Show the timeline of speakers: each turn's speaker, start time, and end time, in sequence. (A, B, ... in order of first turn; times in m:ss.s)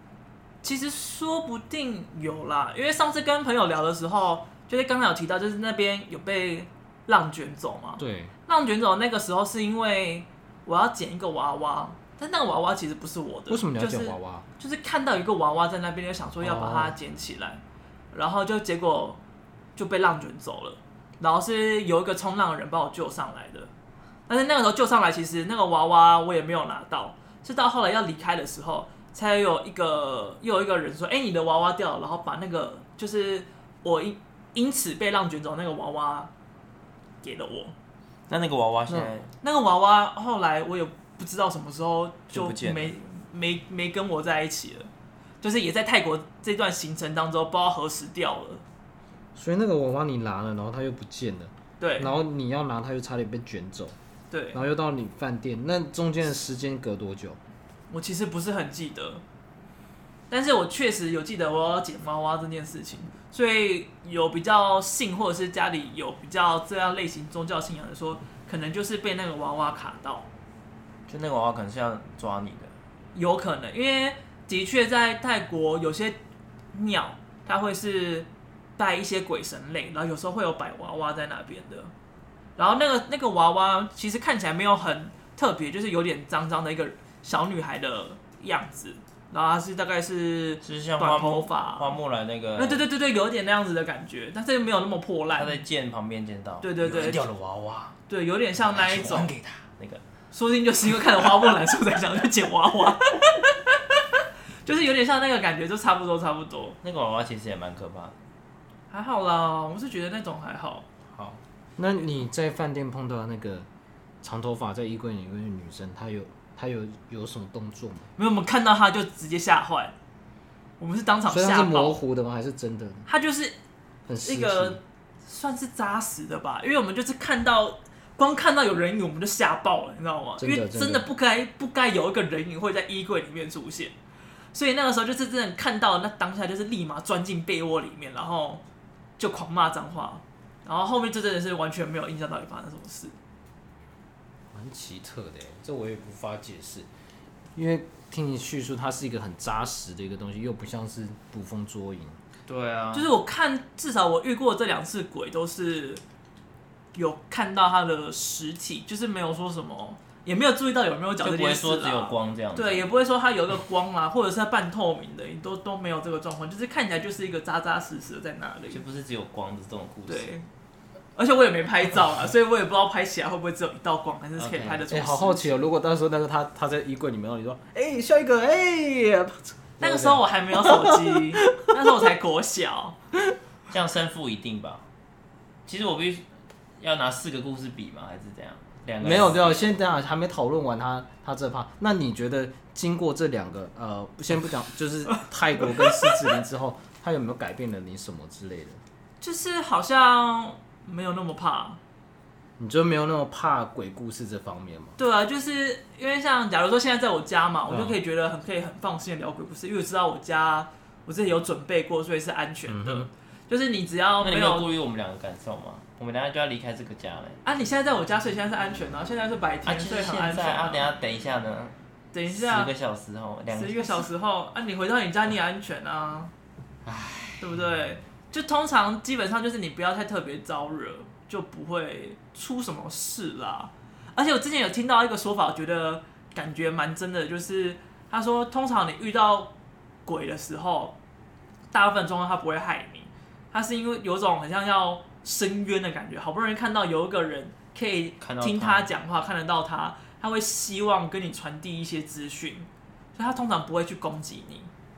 0:00.6-0:17.6 A
0:08.0-0:08.3 B
0:13.5-0:14.4 B
0:16.4-0:16.9 B
0:18.1-0:19.2 A
0:19.8-0:23.7 A
0:24.3-0:36.3 A
0:37.2-0:37.8 A
0:38.3-0:39.3 C
0:39.4-0:44.9 A
0:42.3-0:42.9 C
0:45.4-0:48.6 A
0:49.4-0:54.0 B
0:51.8-0:52.2 A
0:54.3-0:54.6 A
0:54.5-0:57.4 B
0:57.9-0:59.2 A
1:00.3-1:10.3 A
1:11.1-1:12.7 C
1:13.2-1:16.2 A
1:16.7-1:21.9 A
1:22.6-1:32.0 A
1:30.6-1:32.8 C
1:32.6-1:35.6 A
1:35.3-1:38.0 C
1:36.6-1:37.2 A
1:38.1-1:39.3 A
1:38.6-1:40.0 C
1:40.3-1:43.8 A
1:44.6-1:46.8 A
1:46.8-1:48.2 C
1:48.9-1:50.9 A
1:51.1-1:51.4 C
1:51.8-1:53.7 B
1:54.2-1:58.1 B
1:58.2-1:59.9 A
2:00.8-2:02.0 A
2:01.3-2:03.1 B
2:03.1-2:03.6 A
2:04.1-2:04.8 B
2:04.2-2:13.9 A
2:10.4-2:11.1 B
2:14.5-2:18.6 A
2:19.2-2:23.2 A
2:24.5-2:26.9 B
2:27.6-2:32.2 B
2:32.5-2:33.1 C
2:32.9-2:36.0 A
2:36.9-2:48.8 A
2:41.2-2:42.9 C
2:48.7-2:50.3 C
2:50.1-2:50.5 A
2:51.2-2:55.5 A
2:54.4-2:54.9 C
2:54.9-3:01.7 B
2:59.8-3:03.0 A
3:03.7-3:04.8 C
3:05.7-3:06.3 C
3:06.8-3:09.7 C
3:09.0-3:18.8 B
3:19.2-3:21.8 A
3:22.6-3:25.0 B
3:25.0-3:34.7 A
3:27.7-3:28.0 B
3:32.7-3:33.1 B
3:34.2-3:37.4 C
3:37.4-3:40.8 A
3:39.6-3:41.8 C
3:42.1-3:42.7 A
3:42.3-3:44.1 C
3:43.5-3:46.3 A
3:46.9-3:47.5 C
3:47.4-3:59.5 A
4:00.1-4:00.9 A
4:01.7-4:14.7 A
4:08.2-4:08.9 C